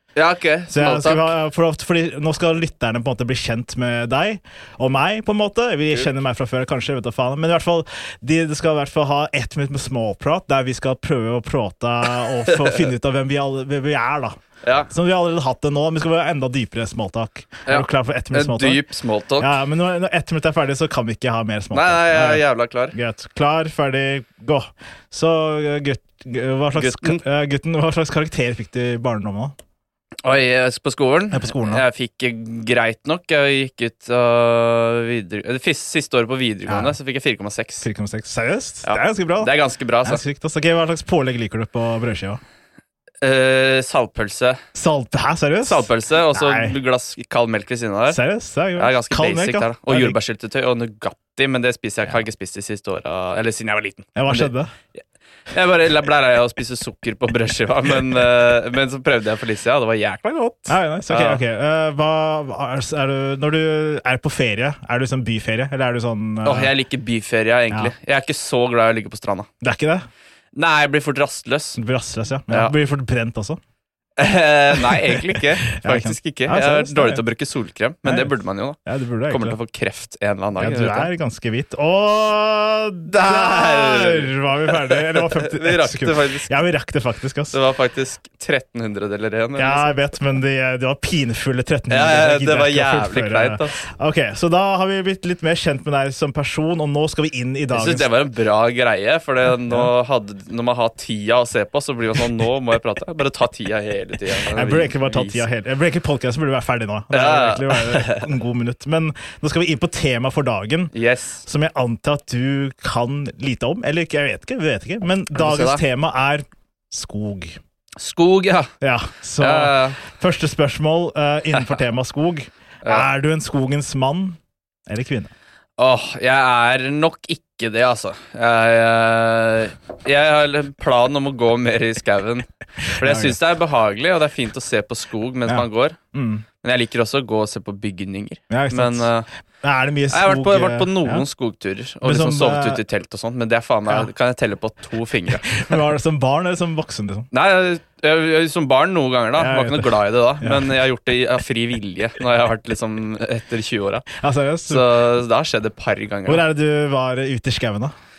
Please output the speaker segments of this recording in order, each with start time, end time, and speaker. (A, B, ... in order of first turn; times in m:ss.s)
0:00.2-0:01.3 A
0:00.7-0:14.4 B
0:12.5-0:12.9 A
0:14.6-0:14.9 A
0:14.9-0:18.8 B
0:17.7-0:19.5 A
0:19.4-0:29.6 B
0:21.7-0:23.0 A
0:26.7-0:27.2 A
0:30.2-0:37.9 A
0:31.3-0:31.8 B
0:36.7-0:37.0 B
0:37.8-0:42.4 B
0:38.8-0:40.2 A
0:43.2-0:44.6 A
0:44.8-0:46.8 B
0:45.6-0:48.2 A
0:48.1-0:50.2 B
0:48.8-0:54.5 A
0:54.2-0:54.7 B
0:55.5-1:01.4 A
1:00.7-1:06.7 B
1:06.4-1:09.5 A
1:09.6-1:10.1 B
1:10.5-1:11.8 A
1:11.8-1:13.6 B
1:12.5-1:12.8 A
1:14.2-1:21.1 A
1:14.7-1:17.2 B
1:18.0-1:19.6 B
1:20.6-1:27.6 B
1:23.1-1:26.5 A
1:27.5-1:30.0 A
1:29.6-1:38.1 B
1:31.9-1:33.8 A
1:37.7-1:45.4 A
1:39.6-1:39.9 B
1:44.5-1:57.6 B
1:47.1-1:48.3 A
1:50.9-1:51.4 A
1:55.4-1:55.8 A
1:58.0-1:58.7 A
1:58.8-2:05.3 B
1:59.4-2:00.0 A
2:02.8-2:03.1 A
2:05.8-2:16.0 A
2:13.0-2:13.4 B
2:15.5-2:16.5 B
2:16.6-2:19.3 A
2:18.5-2:21.3 B
2:20.1-2:25.8 A
2:22.0-2:22.8 B
2:25.4-2:27.3 B
2:27.3-2:34.1 A
2:29.4-2:30.7 B
2:34.2-2:34.9 B
2:34.7-2:36.4 A
2:36.3-2:37.9 B